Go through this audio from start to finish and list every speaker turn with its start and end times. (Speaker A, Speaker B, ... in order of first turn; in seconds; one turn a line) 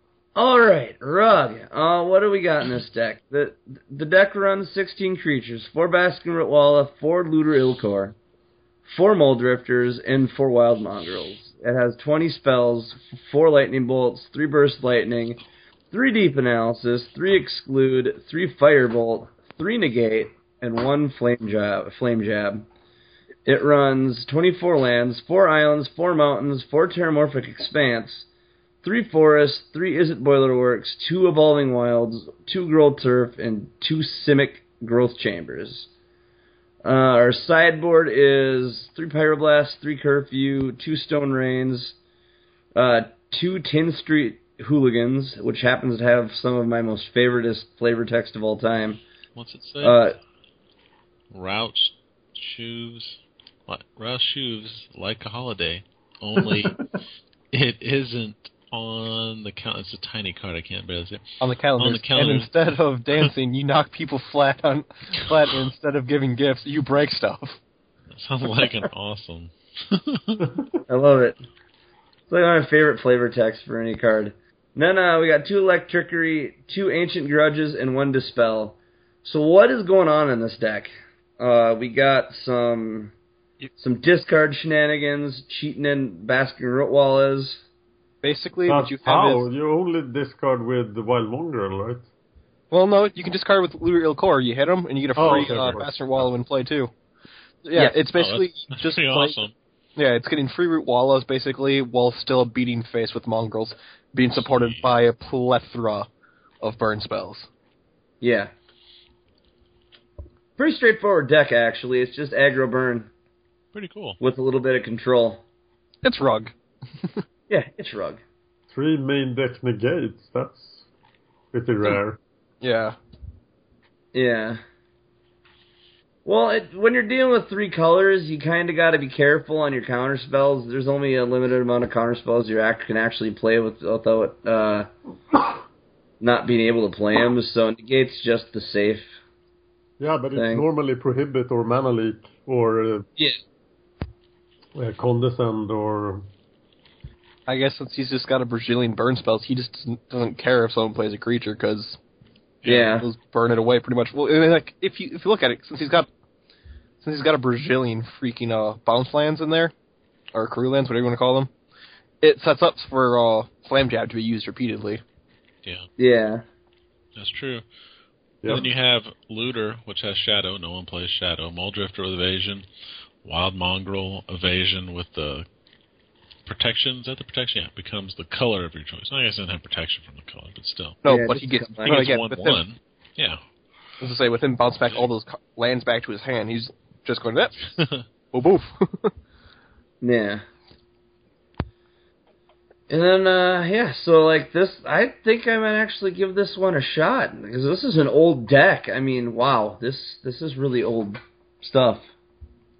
Speaker A: 0.3-8.2
Speaker A: 8.8-15.4
Speaker A: 15.9-22.6
Speaker A: 23.4-28.3
Speaker A: 28.8-35.9
Speaker A: 36.8-42.0
Speaker A: 42.7-49.0
Speaker B: 49.3-50.0
Speaker A: 49.8-50.1
Speaker B: 51.3-56.8
Speaker B: 57.5-61.2
Speaker C: 61.4-67.6
Speaker B: 61.8-62.5
Speaker B: 68.1-70.4
Speaker A: 70.9-71.4
Speaker A: 72.3-83.1
Speaker A: 83.8-87.6
Speaker C: 88.2-89.5
Speaker D: 88.7-92.0
Speaker C: 92.7-96.9
Speaker D: 95.1-95.9
Speaker C: 97.6-99.3
Speaker B: 98.1-99.5
Speaker C: 100.0-106.1
Speaker B: 104.3-104.9
Speaker C: 106.6-107.5
Speaker A: 108.2-108.5
Speaker A: 110.6-113.1
Speaker B: 113.7-114.2
Speaker A: 114.2-115.4
Speaker C: 116.0-117.2
Speaker A: 117.5-118.2
Speaker D: 118.7-120.8
Speaker D: 121.5-122.2
Speaker C: 122.6-123.0
Speaker A: 124.1-124.6
Speaker A: 126.2-134.9
Speaker A: 136.2-139.1
Speaker D: 140.0-143.1
Speaker A: 140.3-140.7
Speaker D: 144.7-146.2
Speaker C: 147.5-152.0
Speaker B: 152.6-152.9
Speaker A: 152.6-153.1
Speaker C: 153.0-156.1
Speaker C: 157.0-159.7
Speaker C: 160.3-161.5
Speaker C: 162.2-165.0
Speaker A: 166.0-166.4
Speaker B: 167.2-167.6
Speaker D: 168.4-168.7
Speaker B: 168.5-172.7
Speaker B: 173.2-175.4
Speaker B: 176.4-181.0
Speaker C: 181.0-182.6
Speaker A: 181.0-182.1
Speaker B: 181.8-183.4
Speaker C: 184.0-187.8
Speaker B: 187.8-188.0
Speaker C: 188.3-189.1
Speaker A: 190.0-190.4
Speaker A: 192.9-202.1